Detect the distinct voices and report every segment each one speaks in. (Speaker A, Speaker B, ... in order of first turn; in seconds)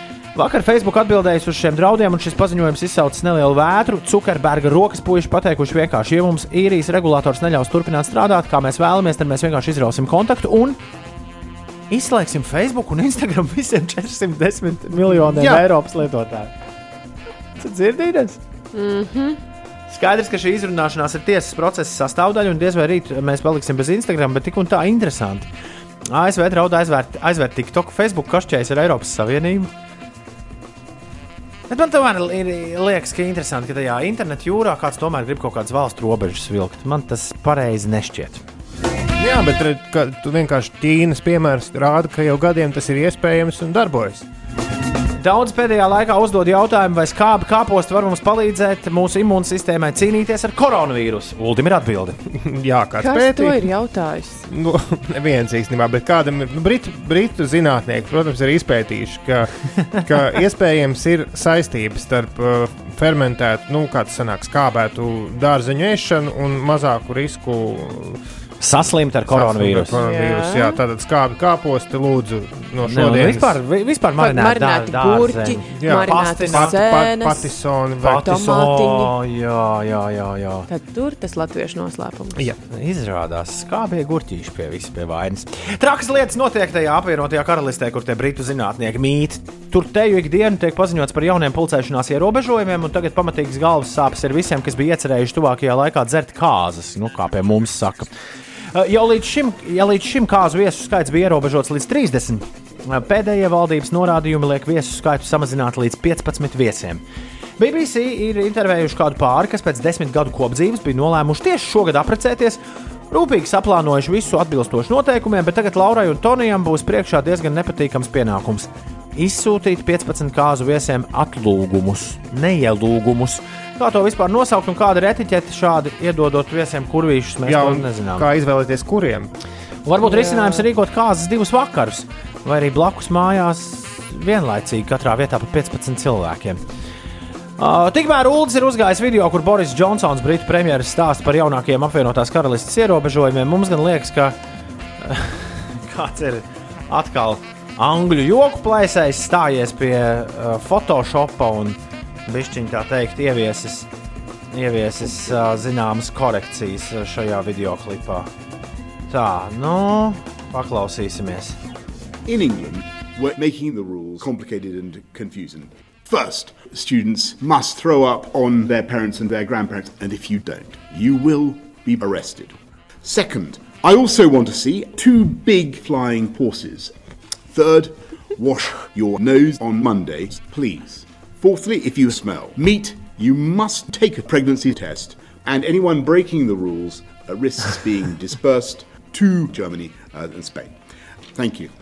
Speaker A: 0.3-10.8, 11.9-16.5, 17.6-18.4, 19.9-25.5, 26.1-29.7, 31.7-38.4, 45.2-52.2, 68.6-70.0, 72.8-76.8, 78.0-80.7, 82.7-98.1, 98.7-107.0, 107.6-112.6, 113.1-128.3, 129.8-136.6, 137.6-144.4, 145.0-153.9, 154.5-158.3, 159.1-161.6
Speaker B: 15.4-15.7, 39.2-44.3, 52.4-53.6, 54.5-68.2, 69.3-73.6, 75.7-78.3, 82.3-82.6, 127.5-129.3
Speaker C: 18.7-19.4, 53.0-54.5, 70.0-70.8, 74.2-77.5, 78.2-79.1, 80.7-82.4, 130.3-130.6
Speaker D: 162.3-176.9, 177.5-190.8, 191.3-191.7